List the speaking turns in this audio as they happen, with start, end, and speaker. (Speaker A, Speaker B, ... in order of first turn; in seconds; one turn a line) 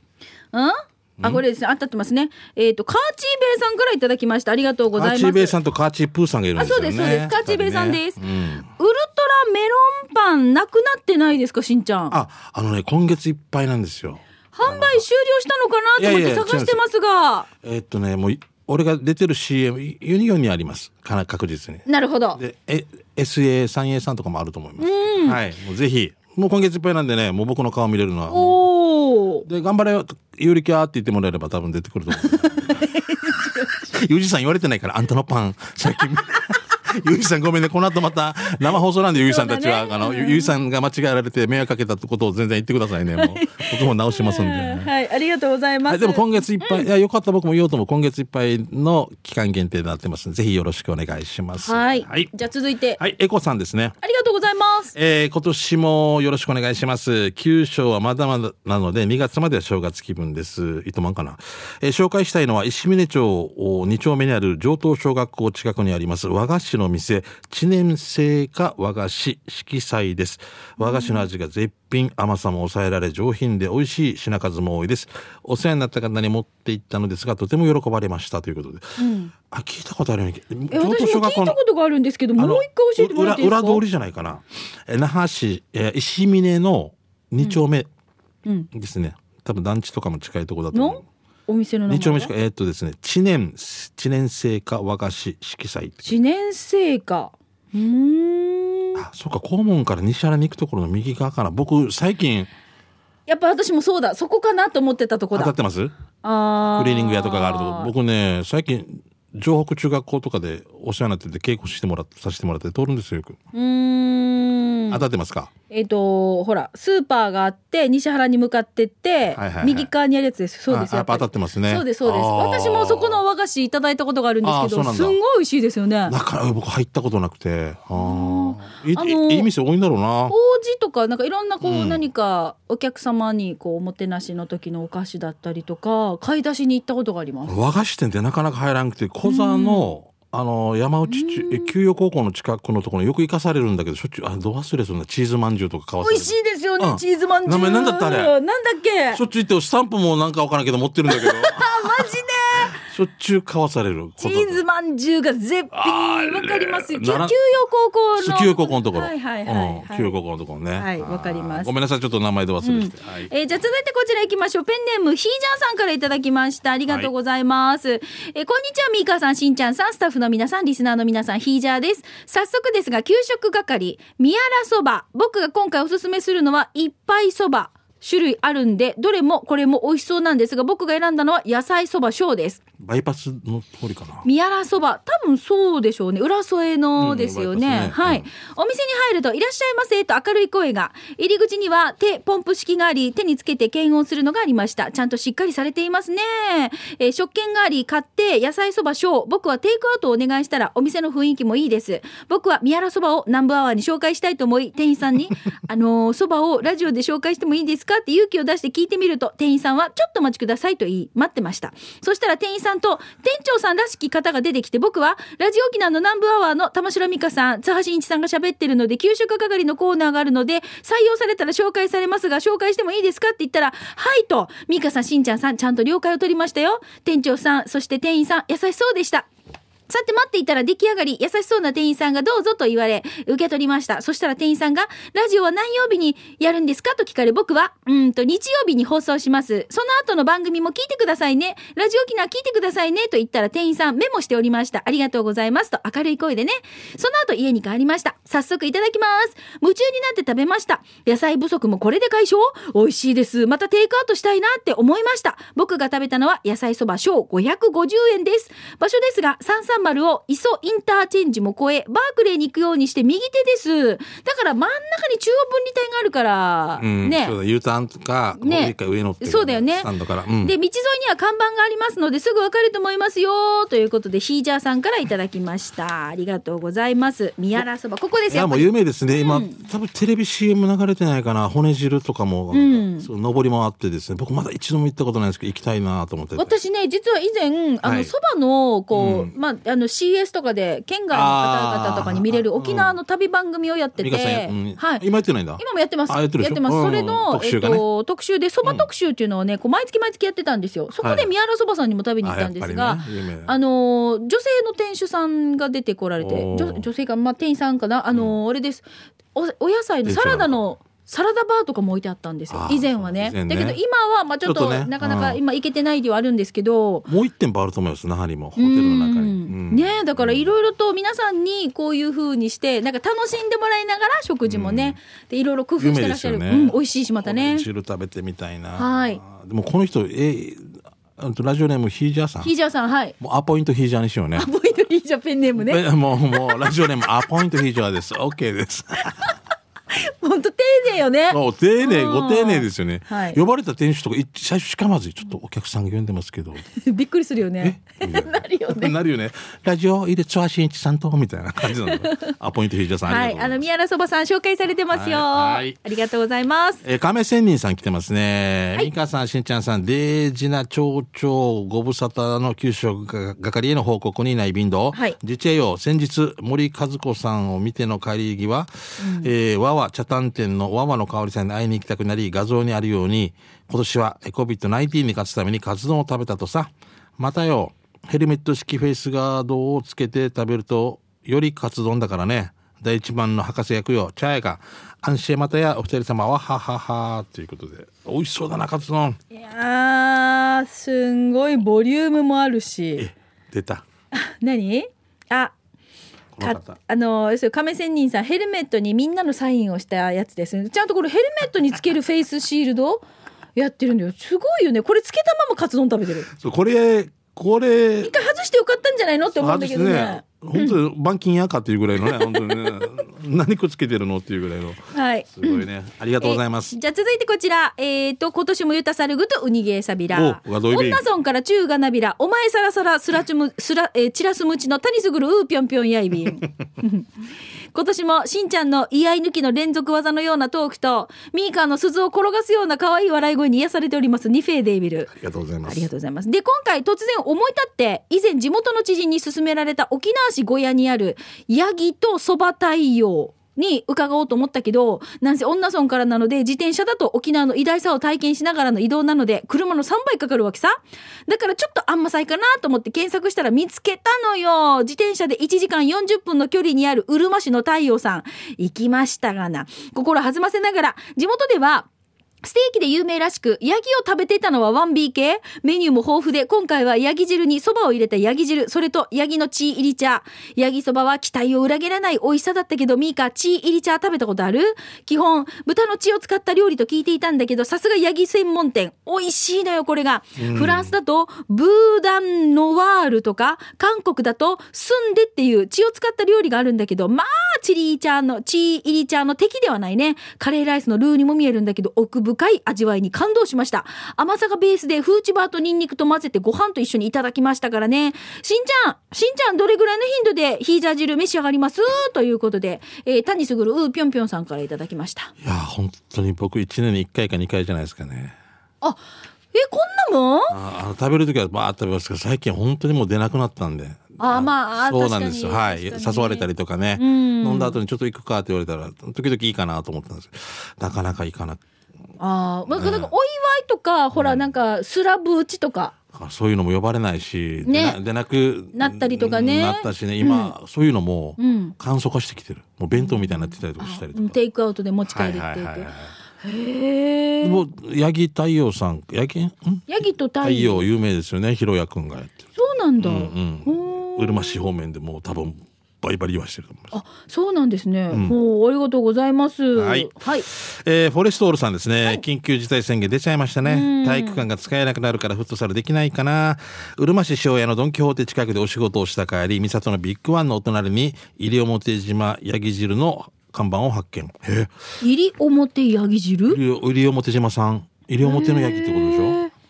Speaker A: 0.5-5.5
Speaker B: 4.9-8.7
Speaker A: 6.5-8.2
Speaker A: 8.8-12.2
Speaker B: 12.1-15.0
Speaker A: 14.5-17.5
Speaker B: 16.0-16.8
Speaker B: 17.6-28.6
Speaker A: 21.9-22.4
Speaker A: 24.8-25.4
Speaker A: 28.3-29.5
Speaker B: 29.4-44.9
Speaker A: 32.7-33.9
Speaker A: 39.2-40.5
Speaker A: 43.1-46.9
Speaker B: 45.9-52.3
Speaker A: 51.6-53.0
Speaker B: 53.0-54.0
Speaker A: 54.0-54.9
Speaker B: 54.9-81.6
Speaker A: 70.8-71.2
Speaker A: 79.0-79.3
Speaker A: 80.7-83.8
Speaker B: 82.4-87.9
Speaker B: 88.7-91.0
Speaker A: 90.7-92.3
Speaker B: 91.9-96.1
Speaker A: 96.0-99.0
Speaker B: 99.0-102.5
Speaker A: 103.3-105.5
Speaker B: 105.3-105.9
Speaker A: 106.2-107.9
Speaker B: 106.8-113.4
Speaker A: 113.5-115.0
Speaker B: 114.9-115.5
Speaker A: 115.7-126.2
Speaker B: 119.3-119.9
Speaker B: 120.7-123.2
Speaker B: 124.4-125.2
Speaker B: 126.1-130.3
Speaker A: 128.0-129.5
Speaker A: 130.3-137.6
Speaker B: 131.6-132.0
Speaker B: 137.4-148.3
Speaker A: 139.2-139.9
Speaker A: 141.1-141.7
Speaker A: 146.0-149.2
Speaker B: 149.1-152.1
Speaker A: 151.1-152.8
Speaker B: 152.7-154.6
Speaker A: 154.2-160.2
Speaker B: 155.7-157.3
Speaker B: 158.2-163.3
Speaker A: 160.8-161.7
Speaker A: 162.6-182.6
Speaker B: 182.8-184.2
Speaker A: 184.2-229.3
Speaker B: 187.0-188.3
Speaker A: 229.9-267.4
Speaker B: 266.8-270.5
Speaker A: 268.4-269.9
Speaker A: 270.4-279.7
Speaker B: 278.3-286.6
Speaker A: 282.5-283.1
Speaker A: 286.4-295.0
Speaker B: 287.8-288.1
Speaker B: 288.9-289.3
Speaker B: 291.1-292.9
Speaker B: 294.0-297.8
Speaker A: 295.6-317.1
Speaker B: 298.6-298.9
Speaker B: 301.0-301.3
Speaker B: 302.2-303.5
Speaker B: 306.2-306.8
Speaker B: 310.1-310.6
Speaker B: 312.5-313.8
Speaker B: 314.4-315.4
Speaker B: 317.1-320.5
Speaker A: 318.6-327.6
Speaker B: 324.4-325.0
Speaker B: 325.8-332.5
Speaker A: 328.8-329.2
Speaker A: 332.4-333.1
Speaker B: 333.2-334.5
Speaker A: 334.4-336.6
Speaker B: 335.6-339.3
Speaker A: 339.9-343.4
Speaker B: 341.3-346.6
Speaker A: 346.7-348.9
Speaker B: 347.6-353.6
Speaker A: 351.8-352.3
Speaker A: 353.1-356.8
Speaker B: 354.9-355.8
Speaker B: 356.8-389.2
Speaker A: 369.0-369.3
Speaker A: 389.3-393.1
Speaker B: 393.0-393.8
Speaker A: 394.1-395.5
Speaker B: 396.3-396.8
Speaker A: 396.4-403.0
Speaker A: 403.6-406.3
Speaker B: 406.3-408.1
Speaker A: 408.0-410.8
Speaker B: 409.4-416.7
Speaker A: 412.0-412.8
Speaker A: 414.9-415.6
Speaker A: 416.2-427.1
Speaker B: 420.1-421.0
Speaker A: 427.7-435.1
Speaker B: 435.1-435.9
Speaker A: 435.6-461.9
Speaker A: 462.4-505.3
Speaker B: 480.4-480.9
Speaker B: 505.4-508.4
Speaker A: 509.5-510.6
Speaker B: 510.5-521.6
Speaker A: 514.2-517.8
Speaker A: 522.2-525.9
Speaker B: 522.7-523.1
Speaker B: 524.1-524.5
Speaker B: 526.1-534.4
Speaker A: 527.6-528.0
Speaker A: 528.7-530.5
Speaker A: 531.4-531.7
Speaker A: 532.9-535.9
Speaker B: 535.1-536.1
Speaker A: 536.4-537.6
Speaker B: 537.4-539.9
Speaker A: 539.9-540.9
Speaker B: 540.4-542.4
Speaker A: 542.6-544.6
Speaker B: 543.0-546.9
Speaker A: 546.9-550.5
Speaker B: 549.8-564.7
Speaker A: 553.6-554.5
Speaker A: 565.0-566.6
Speaker B: 566.5-569.4
Speaker A: 568.2-569.5